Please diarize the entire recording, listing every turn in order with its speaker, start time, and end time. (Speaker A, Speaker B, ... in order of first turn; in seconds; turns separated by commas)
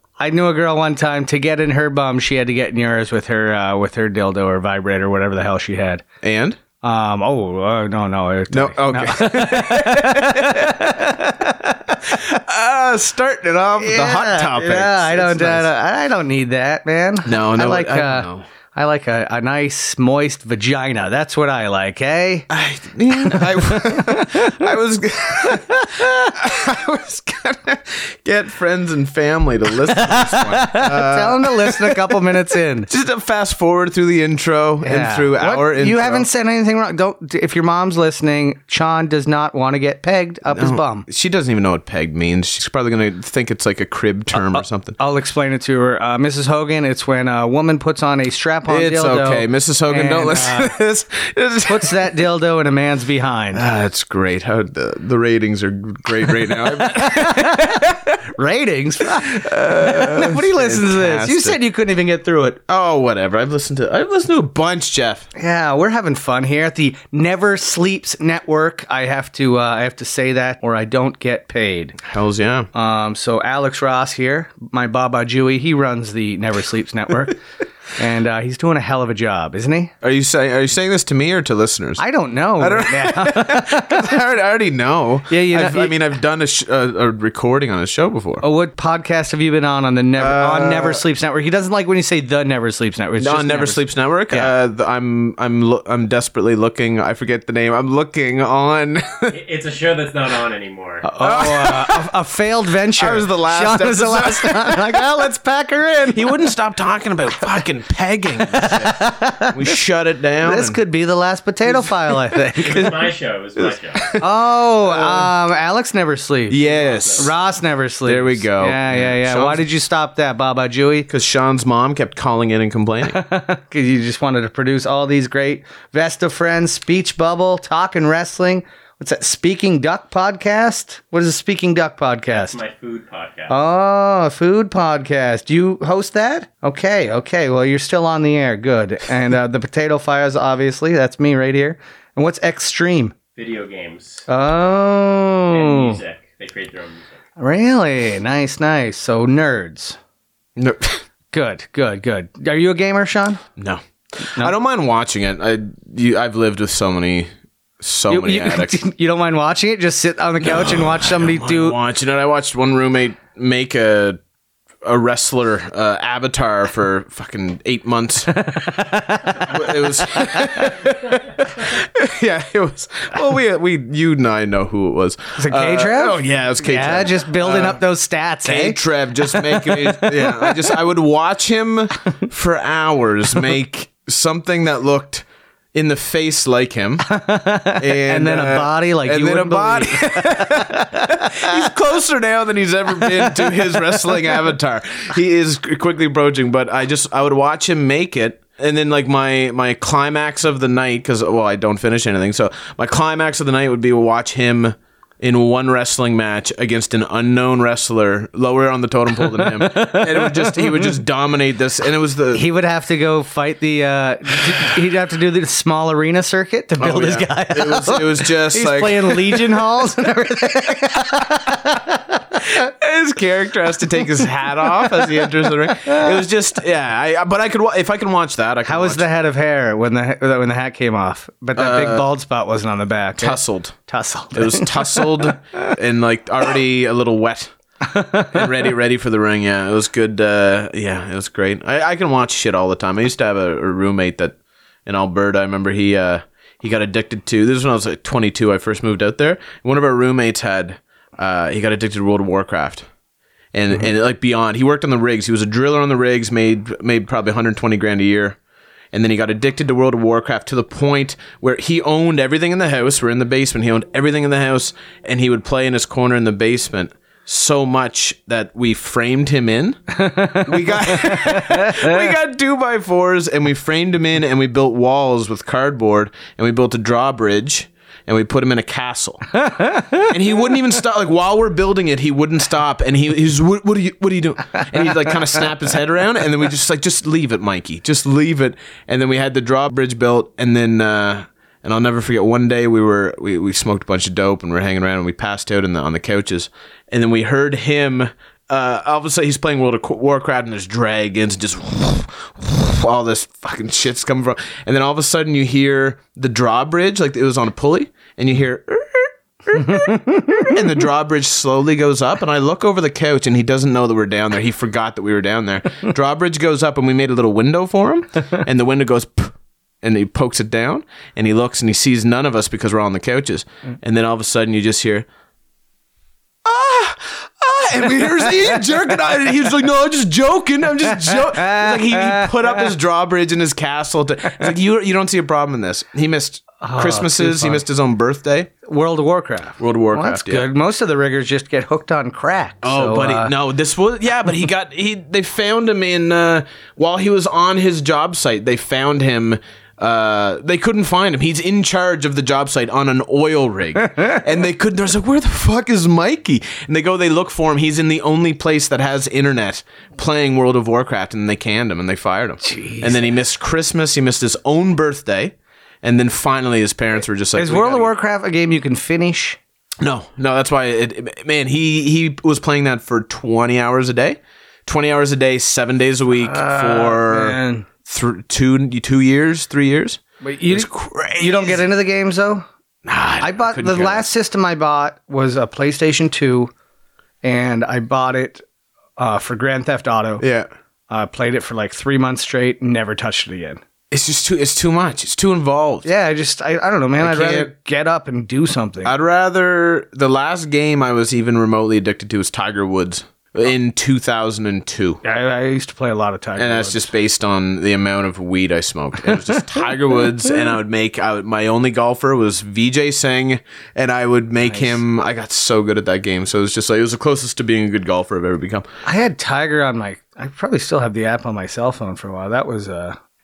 Speaker A: 0.2-6.0, Speaker B: 6.2-6.6, Speaker A: 6.8-12.1, Speaker B: 8.5-11.0, Speaker B: 12.0-15.7, Speaker A: 13.8-22.5, Speaker B: 17.2-18.5, Speaker B: 22.5-32.1, Speaker A: 23.1-24.7, Speaker A: 25.4-26.4, Speaker A: 30.0-32.9, Speaker B: 32.9-36.3, Speaker A: 34.8-41.0, Speaker B: 40.5-45.0, Speaker A: 44.3-50.7, Speaker B: 48.7-52.1, Speaker A: 51.6-53.6, Speaker B: 53.5-58.2, Speaker A: 56.8-62.6, Speaker B: 59.1-61.6, Speaker B: 62.7-65.3, Speaker A: 65.3-72.0, Speaker B: 72.0-72.7, Speaker A: 72.7-77.4, Speaker A: 78.0-79.9, Speaker B: 80.0-82.0, Speaker A: 82.0-84.1, Speaker B: 82.6-88.4, Speaker A: 85.3-85.9, Speaker A: 88.4-94.5, Speaker B: 90.2-91.0, Speaker B: 93.2-99.3, Speaker C: 99.3-101.1, Speaker A: 101.0-106.3, Speaker B: 101.2-102.0, Speaker B: 103.0-105.2, Speaker B: 106.1-110.8, Speaker A: 108.4-109.5, Speaker A: 110.4-113.0, Speaker C: 112.6-114.1, Speaker B: 113.6-114.2, Speaker A: 114.2-116.6, Speaker B: 114.8-115.3, Speaker B: 116.5-117.3, Speaker C: 116.6-117.4, Speaker A: 117.2-121.1, Speaker B: 118.0-119.6, Speaker B: 121.1-123.2, Speaker A: 123.0-132.6, Speaker C: 132.3-133.5, Speaker A: 133.5-143.1, Speaker C: 143.3-144.3, Speaker A: 144.3-146.0, Speaker C: 145.5-147.1, Speaker A: 147.4-150.0, Speaker B: 150.6-151.0, Speaker A: 151.3-153.4, Speaker B: 153.6-157.3, Speaker B: 157.8-158.8, Speaker A: 158.1-161.8, Speaker B: 160.4-164.2, Speaker B: 164.8-168.3, Speaker A: 168.3-170.8, Speaker B: 169.3-177.8, Speaker A: 175.4-180.8, Speaker B: 178.4-187.1, Speaker A: 187.0-191.6, Speaker B: 187.7-212.4, Speaker A: 193.1-194.3, Speaker A: 209.2-210.9, Speaker A: 212.3-222.4, Speaker B: 216.8-219.6, Speaker B: 222.5-229.1, Speaker A: 225.7-226.0, Speaker A: 228.7-235.3, Speaker B: 231.5-232.0, Speaker B: 233.2-233.8, Speaker B: 234.3-237.5, Speaker A: 237.8-238.4, Speaker B: 238.3-252.9, Speaker B: 253.5-258.4, Speaker B: 258.9-269.8, Speaker A: 269.9-272.0, Speaker B: 270.4-279.2, Speaker A: 279.5-280.1, Speaker B: 280.0-325.1, Speaker A: 309.6-310.5, Speaker B: 326.4-338.5, Speaker A: 331.0-332.5, Speaker A: 336.6-337.6, Speaker A: 338.6-343.3, Speaker B: 339.6-340.4, Speaker B: 342.6-367.9, Speaker A: 362.4-363.1, Speaker A: 367.3-369.4, Speaker B: 369.8-381.7, Speaker A: 376.2-377.7, Speaker A: 380.2-382.4, Speaker B: 382.8-384.0, Speaker A: 383.2-386.5, Speaker A: 387.2-388.4, Speaker A: 389.0-390.2, Speaker B: 390.2-390.5, Speaker A: 390.9-393.6, Speaker B: 393.9-395.9, Speaker A: 395.8-398.9, Speaker B: 397.0-397.5, Speaker B: 398.8-405.0, Speaker A: 405.0-406.9, Speaker B: 406.4-418.7, Speaker A: 414.4-414.8, Speaker A: 418.8-423.0